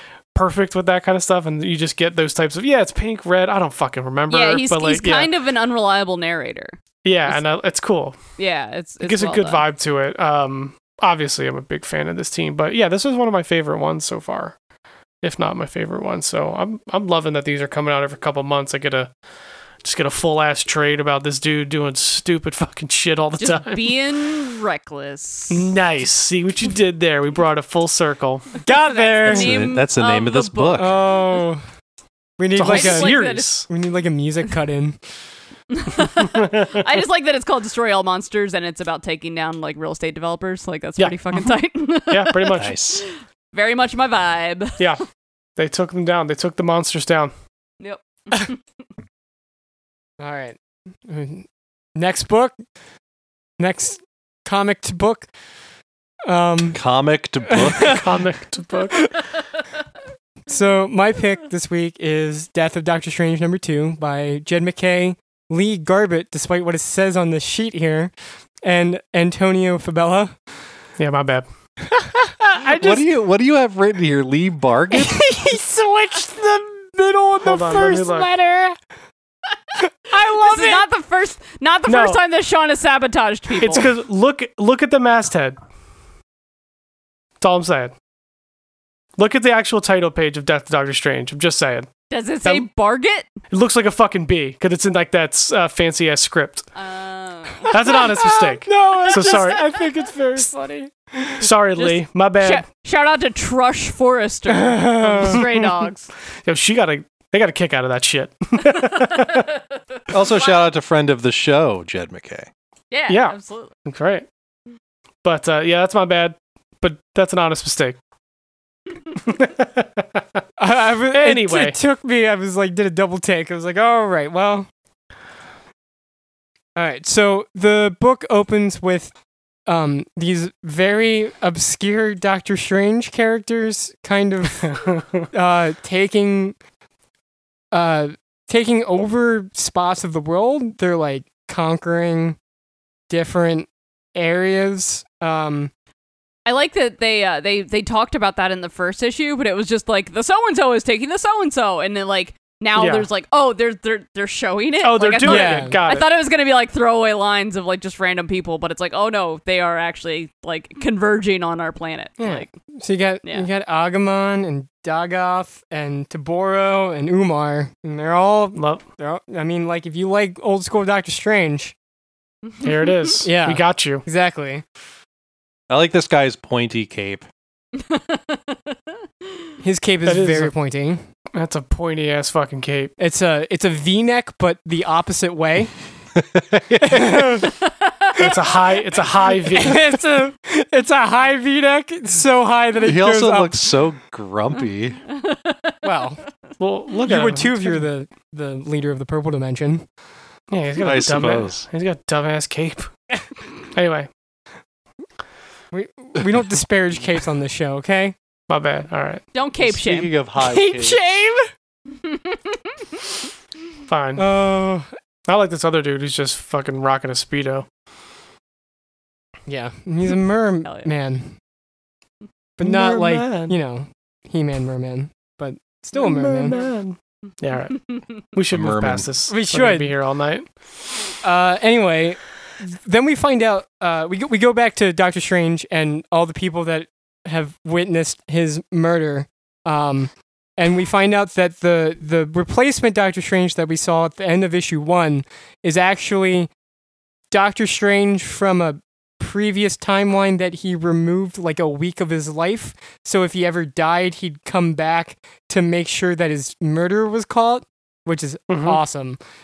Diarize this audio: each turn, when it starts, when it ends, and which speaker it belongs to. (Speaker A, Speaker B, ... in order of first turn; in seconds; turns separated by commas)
Speaker A: 0.3-5.3, Speaker B: 4.3-7.4, Speaker A: 7.0-8.2, Speaker B: 8.4-9.6, Speaker A: 9.0-14.6, Speaker A: 15.2-19.1, Speaker A: 19.8-23.9, Speaker B: 23.4-25.7, Speaker A: 25.5-28.6, Speaker C: 28.6-29.7, Speaker B: 28.7-31.1, Speaker D: 29.3-31.0, Speaker C: 30.8-31.6, Speaker C: 32.4-35.0, Speaker A: 32.5-33.7, Speaker B: 32.6-33.5, Speaker B: 35.7-44.8, Speaker A: 36.2-36.9, Speaker A: 41.0-41.5, Speaker A: 42.1-42.7, Speaker D: 42.5-43.0, Speaker A: 45.6-47.3, Speaker B: 47.8-48.6, Speaker C: 50.2-52.5, Speaker C: 53.6-55.3, Speaker C: 56.3-56.8, Speaker D: 56.7-58.0, Speaker C: 57.5-58.0, Speaker A: 57.9-59.0, Speaker C: 58.9-59.2, Speaker C: 60.5-68.1, Speaker C: 68.6-70.3, Speaker A: 71.0-71.5, Speaker C: 71.9-73.0, Speaker D: 72.7-75.3, Speaker C: 74.9-78.8, Speaker A: 77.4-78.3, Speaker C: 79.8-80.8, Speaker B: 80.1-83.9, Speaker A: 81.9-82.2, Speaker A: 83.6-85.6, Speaker A: 87.4-87.9, Speaker A: 89.2-91.9, Speaker B: 92.1-93.3, Speaker A: 93.5-96.7, Speaker B: 96.7-98.0, Speaker C: 97.7-101.5, Speaker A: 97.7-99.8, Speaker A: 101.4-102.6, Speaker B: 101.8-106.1, Speaker C: 104.5-105.4, Speaker A: 106.4-109.5, Speaker B: 109.1-109.4, Speaker D: 110.1-112.5, Speaker B: 110.2-110.6, Speaker B: 112.9-113.7, Speaker A: 113.1-114.3, Speaker A: 115.2-118.0, Speaker A: 119.2-120.2, Speaker C: 120.6-124.7, Speaker A: 121.1-121.8, Speaker C: 126.8-129.1, Speaker C: 129.7-136.6, Speaker A: 134.7-135.0, Speaker C: 137.7-142.4, Speaker C: 143.1-145.7, Speaker B: 146.4-162.5, Speaker A: 152.8-153.1, Speaker A: 154.8-156.1, Speaker C: 155.2-155.8, Speaker C: 162.2-171.7, Speaker A: 168.5-168.8, Speaker B: 172.4-173.2, Speaker A: 172.6-174.0, Speaker C: 173.2-174.6, Speaker D: 175.7-177.2, Speaker B: 177.8-178.8, Speaker C: 179.6-181.0, Speaker A: 180.1-180.5, Speaker A: 181.3-182.9, Speaker C: 183.0-185.7, Speaker D: 186.2-187.5, Speaker C: 186.8-187.6, Speaker C: 188.1-188.4, Speaker A: 188.2-189.9, Speaker C: 189.4-193.7, Speaker D: 192.8-195.0, Speaker B: 195.2-195.7, Speaker C: 195.8-196.2, Speaker A: 196.6-197.9, Speaker C: 197.0-199.8, Speaker A: 200.5-202.9, Speaker D: 200.8-201.6, Speaker A: 203.7-204.1, Speaker C: 205.7-208.1, Speaker A: 208.5-209.2, Speaker B: 209.3-210.1, Speaker D: 209.6-211.0, Speaker C: 210.4-211.4, Speaker B: 211.9-212.7, Speaker A: 213.9-214.2, Speaker C: 214.2-214.9, Speaker A: 215.2-217.7, Speaker C: 219.5-221.4, Speaker C: 222.6-226.6, Speaker A: 222.6-223.5, Speaker A: 225.9-230.5, Speaker D: 228.5-229.1, Speaker C: 229.3-229.9, Speaker C: 231.2-246.5, Speaker C: 247.3-259.2, Speaker A: 258.5-258.8